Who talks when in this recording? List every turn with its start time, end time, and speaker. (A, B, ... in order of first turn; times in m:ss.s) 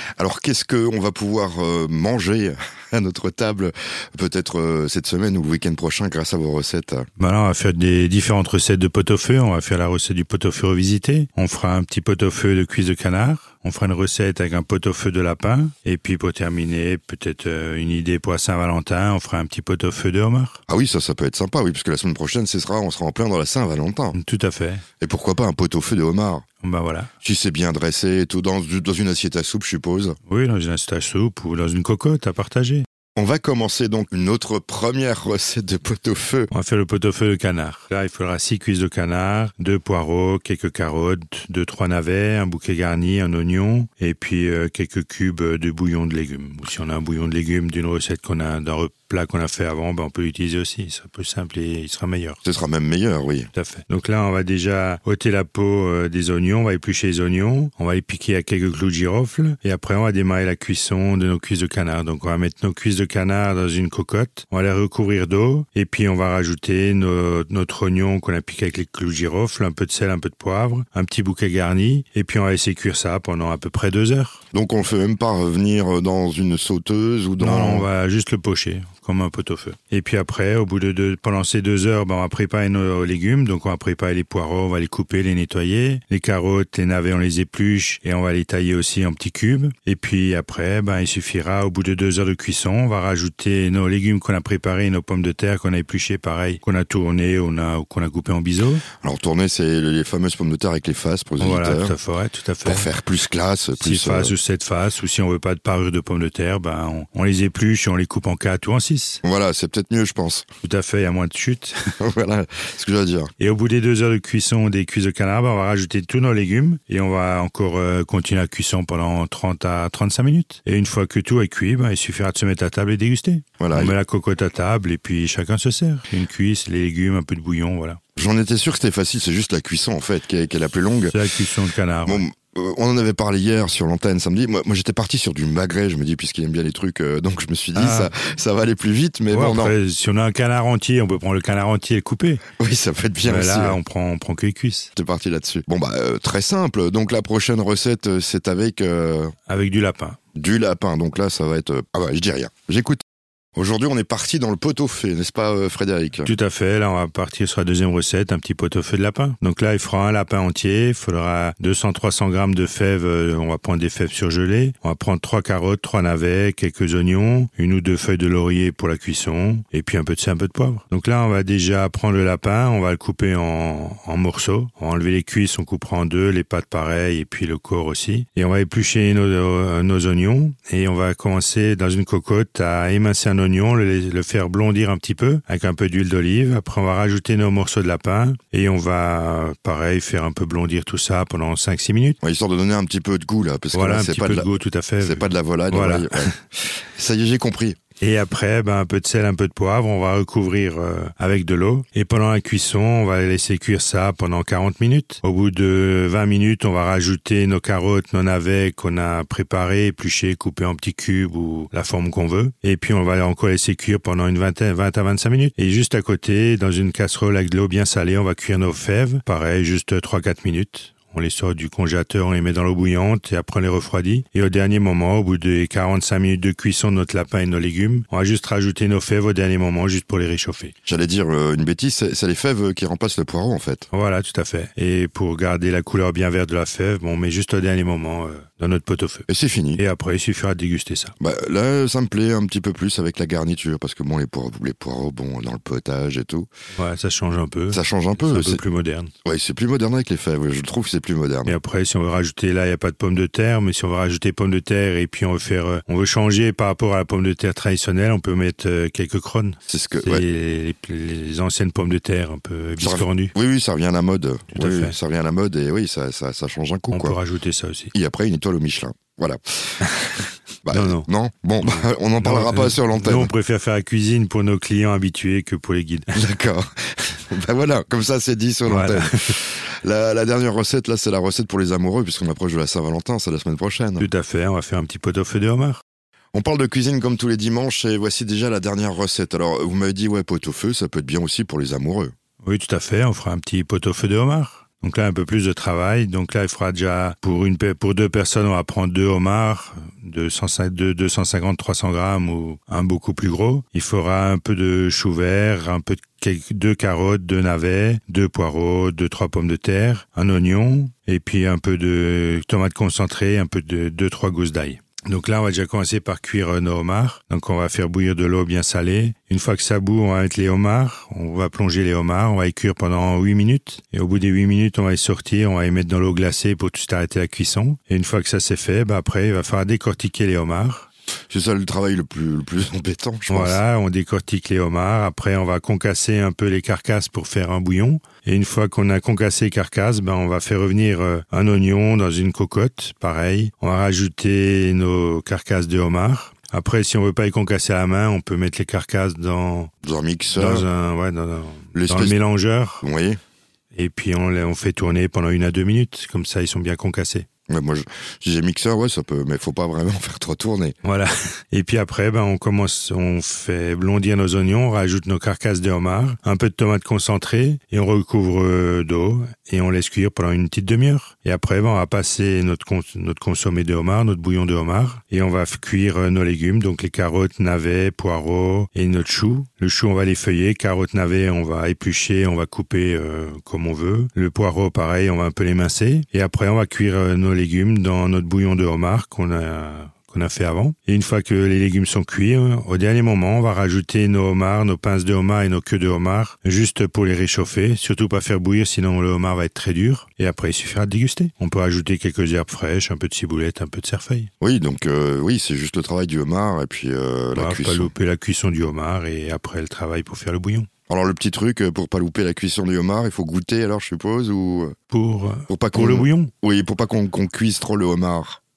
0:00.2-0:07.1 A
0:07.2-0:20.6 B
0:20.7-0:24.2 A
0:24.1-0:24.8 B
0:25.0-0:26.4 A
0:26.6-0:27.1 B
0:27.2-0:30.2 A
0:30.3-0:32.9 B
0:33.2-0:36.5 A
0:36.5-0:52.4 B
0:52.4-0:53.5 A
0:53.5-1:14.4 B
1:14.5-1:17.9 A
1:17.4-1:38.8 B
1:39.0-1:41.9 A
1:41.4-1:42.9 B
1:42.6-1:44.3 A
1:43.8-1:49.2 B
1:49.2-1:50.5 A
1:50.6-1:51.9 B
1:52.0-1:53.3 A
1:53.4-2:08.0 B
2:03.6-2:04.0 A
2:08.2-2:11.2 A
2:11.1-2:12.3 B
2:12.1-2:19.7 A
2:17.8-2:18.1 B
2:19.3-2:22.4 B
2:22.6-2:23.8 A
2:23.2-2:24.9 B
2:25.0-2:29.3 A
2:29.5-2:30.2 B
2:30.4-2:33.0 A
2:33.6-2:36.3 A
2:36.2-3:12.2 B
3:12.2-3:14.5 A
3:13.7-3:16.4 B
3:15.0-3:17.8 A
3:18.0-3:50.7 B
3:50.9-3:53.9 A
3:53.9-4:01.2 B
3:59.3-3:59.8 A
4:01.2-4:06.5 A
4:06.7-4:09.1 B
4:07.7-4:08.6 A
4:09.2-4:11.6 A
4:11.4-4:23.3 B
4:19.7-4:20.2 A
4:22.8-4:27.2 A
4:24.5-4:25.0 B
4:26.9-4:27.9 B
4:27.9-4:33.3 A
4:30.7-4:31.1 B
4:31.6-4:36.1 B
4:36.1-4:44.1 A
4:38.7-4:39.4 B
4:44.0-4:45.8 B
4:46.3-4:52.1 A
4:52.4-5:30.9 B
5:31.3-5:33.6 A
5:33.3-5:49.7 B
5:49.8-5:50.7 A
5:50.3-5:52.8 B
5:51.7-5:52.2 A
5:52.8-5:53.2 A
5:53.7-5:57.3 B
5:57.5-6:00.8 A
6:00.8-6:44.3 B
6:44.4-6:47.9 A
6:47.4-6:50.7 B
6:50.9-6:54.8 A
6:54.9-6:56.3 B
6:55.5-6:58.4 A